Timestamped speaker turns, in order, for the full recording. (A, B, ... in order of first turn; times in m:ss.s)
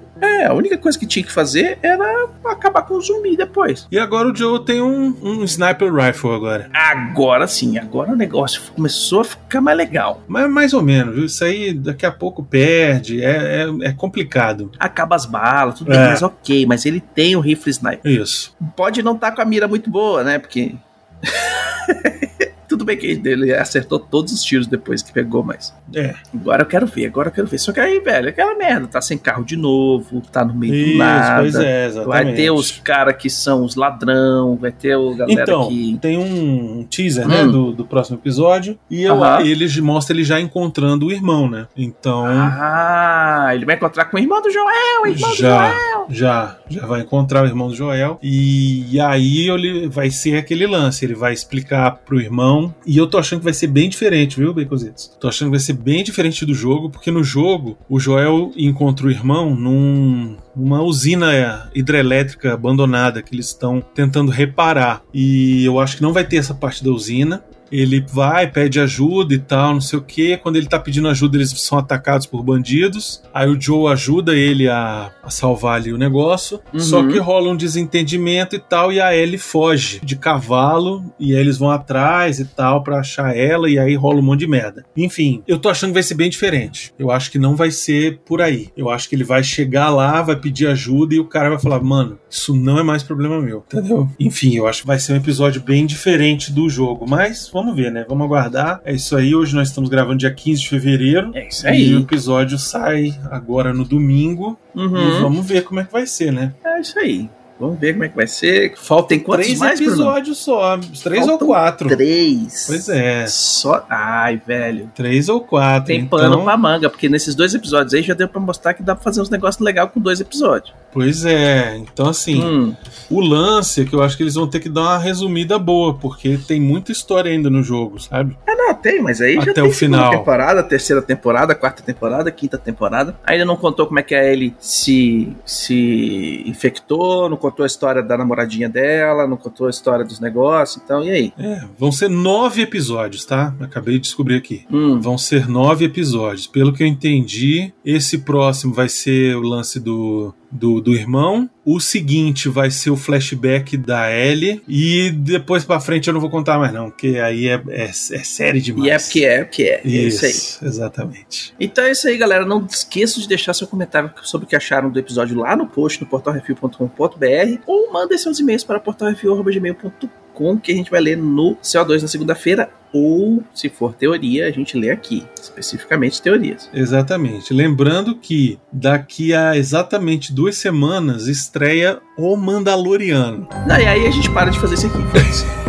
0:00.2-0:03.8 A
0:03.9-0:06.7 B
0:06.7-0:10.2 A
0:10.3-0:14.7 B
0:14.8-0:18.0 A
0:15.8-0:16.2 B
0:18.0-0:18.5 B
0:18.6-0:25.7 A
0:25.9-0:26.2 B
0:26.3-0:36.0 A
0:30.7-0:32.8 B
0:35.2-0:42.6 B
0:37.2-0:37.6 A
0:39.1-0:39.5 A
0:42.2-0:46.1 A
0:45.0-1:46.6 B
1:16.7-1:17.2 A
1:41.3-1:42.1 A
1:44.7-1:45.3 A
1:46.6-1:50.2 A
1:48.8-1:52.0 B
1:51.1-1:54.9 A
1:52.7-1:53.3 B
1:55.0-1:56.6 B
1:55.9-2:00.7 A
2:00.9-2:02.6 B
2:02.3-2:02.8 A
2:03.1-2:08.4 B
2:08.5-2:21.3 A
2:09.4-2:10.3 B
2:21.4-2:39.2 B
2:24.7-2:25.1 A
2:38.8-2:40.5 A
2:39.8-2:41.5 B
2:41.6-2:56.7 A
2:56.7-3:03.5 B
3:03.6-3:05.5 A